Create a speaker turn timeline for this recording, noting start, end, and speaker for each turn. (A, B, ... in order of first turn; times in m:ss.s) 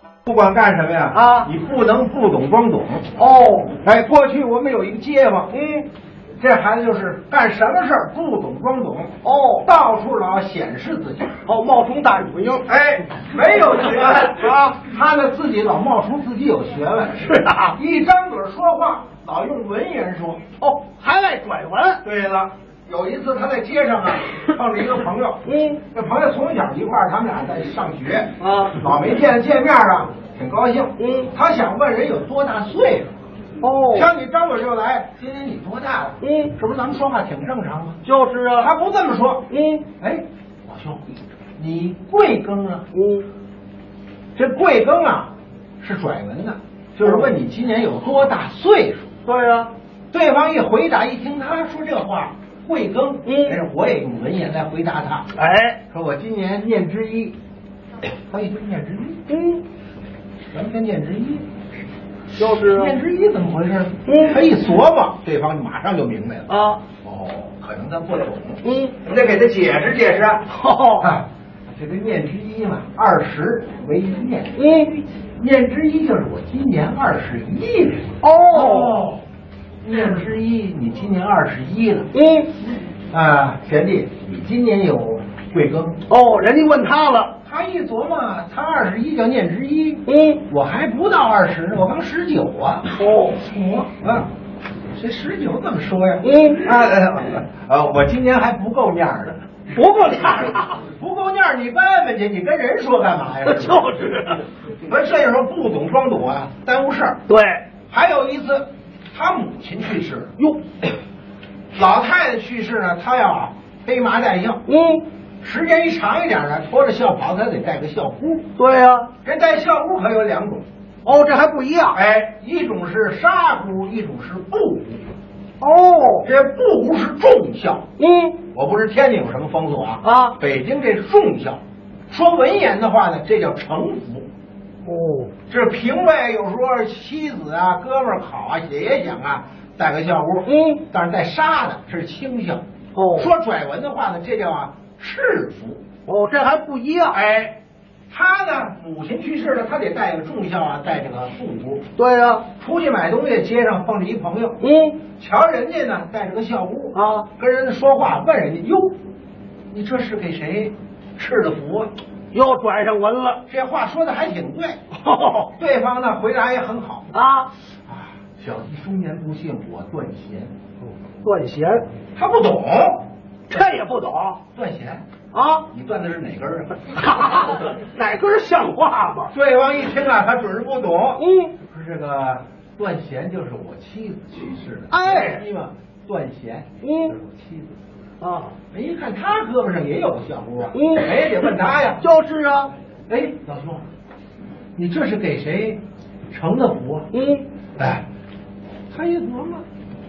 0:00.2-0:03.1 A
0:01.1-0:01.5 B
0:03.2-0:03.7 B
0:03.8-0:05.5 A
0:05.5-0:05.8 B
0:06.4-0:11.4 A
0:09.2-0:09.7 B
0:11.4-0:14.7 B
0:12.6-0:20.4 A
0:17.3-0:17.8 B
0:20.6-0:22.0 B
0:22.0-0:33.2 A
0:25.5-0:25.7 B
0:28.4-0:28.8 B
0:31.0-0:31.3 B
0:33.6-0:34.1 B
0:33.9-0:38.0 A
0:36.2-0:36.5 B
0:38.0-0:38.7 B
0:38.6-0:41.0 A
0:39.5-0:39.8 B
0:41.6-0:42.8 A
0:42.9-0:43.3 B
0:44.4-0:49.1 A
0:47.0-0:47.4 B
0:49.2-0:49.7 B
0:50.1-0:55.3 A
0:53.3-0:53.5 B
0:55.3-0:55.8 B
0:55.9-0:57.4 A
0:58.2-0:59.2 A
0:59.3-0:59.6 B
1:00.5-1:01.4 A
1:02.3-1:03.0 B
1:02.5-1:14.8 A
1:06.5-1:06.8 B
1:10.5-1:11.1 B
1:15.4-1:19.2 A
1:18.2-1:19.0 B
1:19.8-1:22.1 A
1:23.1-1:26.0 A
1:26.1-1:27.3 B
1:27.4-1:34.3 A
1:32.9-1:33.4 B
1:34.9-1:39.4 A
1:39.7-1:40.8 B
1:40.8-1:44.0 A
1:43.4-1:44.4 B
1:44.8-1:47.2 A
1:47.3-1:47.6 B
1:47.9-1:50.4 A
1:50.4-1:50.8 B
1:51.7-1:54.6 A
1:54.7-1:55.0 B
1:55.4-1:58.5 A
1:58.6-1:59.1 B
1:59.2-2:00.7 A
2:01.0-2:02.0 B
2:01.9-2:05.0 A
2:05.6-2:06.3 B
2:06.2-2:07.8 A
2:08.0-2:08.4 B
2:08.5-2:14.3 A
2:10.0-2:10.3 B
2:14.8-2:15.3 B
2:15.5-2:22.6 A
2:20.5-2:20.8 B
2:22.9-2:23.3 B
2:23.2-2:25.8 A
2:26.0-2:27.2 B
2:27.1-2:27.6 A
2:28.1-2:31.8 A
2:32.0-2:32.4 B
2:32.5-2:34.6 A
2:34.6-2:34.9 B
2:35.2-2:39.0 A
2:36.9-2:37.3 B
2:39.7-2:41.9 A
2:42.3-2:43.4 B
2:43.5-2:44.8 A
2:45.0-2:45.5 B
2:45.5-2:47.1 A
2:47.1-2:47.5 B
2:47.9-2:50.5 A
2:51.2-2:51.8 B
2:52.1-2:53.1 A
2:53.5-2:54.4 B
2:54.5-2:55.0 A
2:55.3-2:55.6 B
2:55.7-2:56.9 A
2:56.9-2:59.3 B
2:59.3-3:07.8 A
3:04.9-3:05.4 B
3:08.2-3:08.5 B
3:08.7-3:12.0 A
3:12.0-3:12.7 B
3:13.1-3:13.8 A
3:14.8-3:17.1 A
3:17.1-3:17.4 B
3:17.8-3:18.0 A
3:18.9-3:19.6 A